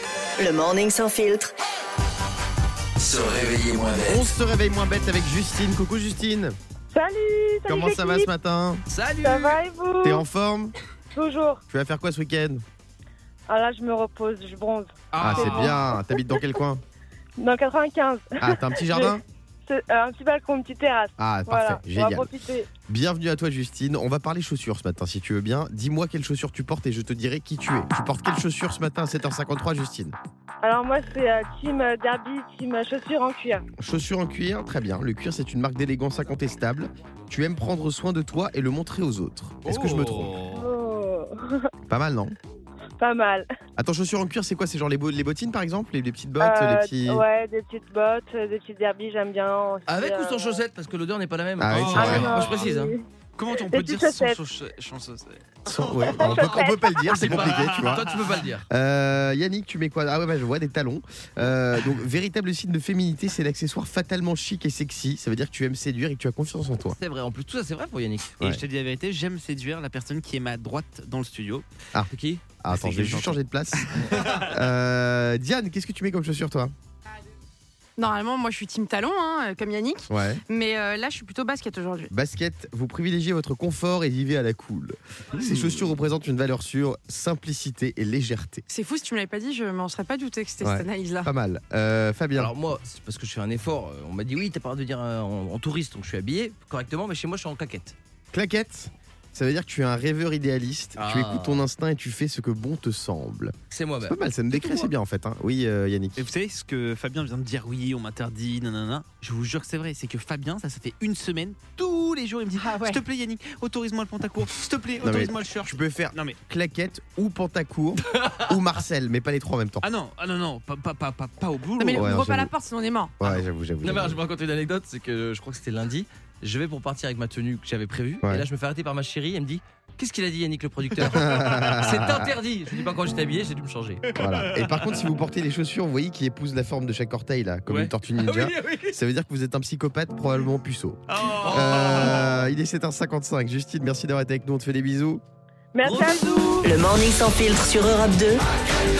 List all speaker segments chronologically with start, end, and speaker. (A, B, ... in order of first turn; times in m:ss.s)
0:00.4-0:01.5 A
0:03.3-0:03.6 B
0:04.1-0:06.6 C
0:06.9-0:08.3 D
0:07.7-0:08.8 C
0:08.9-0:09.6 B
0:09.2-0:10.2 D
0:10.1-0:10.7 C
0:11.1-0:11.6 D
0:11.7-0:12.6 C
0:13.5-0:16.4 D
0:15.1-0:15.8 B
0:15.2-0:16.8 C
0:17.4-0:22.7 D
0:18.4-0:19.2 C
0:21.2-0:22.2 C
0:22.9-0:30.2 C
0:30.6-0:33.6 D
0:33.8-0:40.3 C
0:39.6-0:40.6 B
0:40.5-0:41.6 D
0:41.9-0:42.3 C
0:43.0-0:43.5 D
0:43.8-0:47.1 C
0:46.4-0:50.7 D
0:49.9-0:52.9 B
0:51.6-0:52.4 C
0:51.6-0:52.7 E
0:51.9-0:54.4 D
0:53.4-0:56.7 E
0:55.7-0:58.1 C
0:56.2-0:57.1 D
0:57.1-0:58.7 B
0:57.2-0:58.0 E
0:58.7-1:07.0 C
1:06.8-1:08.5 B
1:08.4-1:11.6 E
1:12.0-1:12.6 B
1:12.6-1:16.7 C
1:12.6-1:14.7 E
1:18.0-1:22.1 F
1:20.1-1:20.4 C
1:22.2-1:28.6 C
1:25.4-1:26.0 B
1:28.7-1:31.3 F
1:30.6-1:32.5 C
1:32.4-1:37.9 B
1:38.3-1:43.5 C
1:41.0-1:41.6 B
1:43.7-1:44.9 B
1:44.2-1:46.1 C
1:46.2-1:56.4 E
1:52.5-1:53.0 F
1:55.0-1:59.8 C
1:58.2-1:58.8 B
1:59.8-2:02.1 E
2:01.8-2:03.2 F
2:02.0-2:02.5 C
2:03.2-2:04.2 C
2:03.8-2:14.1 B
2:11.2-2:12.2 C
2:11.3-2:11.8 E
2:14.2-2:25.2 C
2:14.3-2:15.1 E
2:17.7-2:19.0 B
2:21.2-2:22.4 E
2:25.7-2:26.3 D
2:25.9-2:26.7 B
2:26.6-2:28.4 A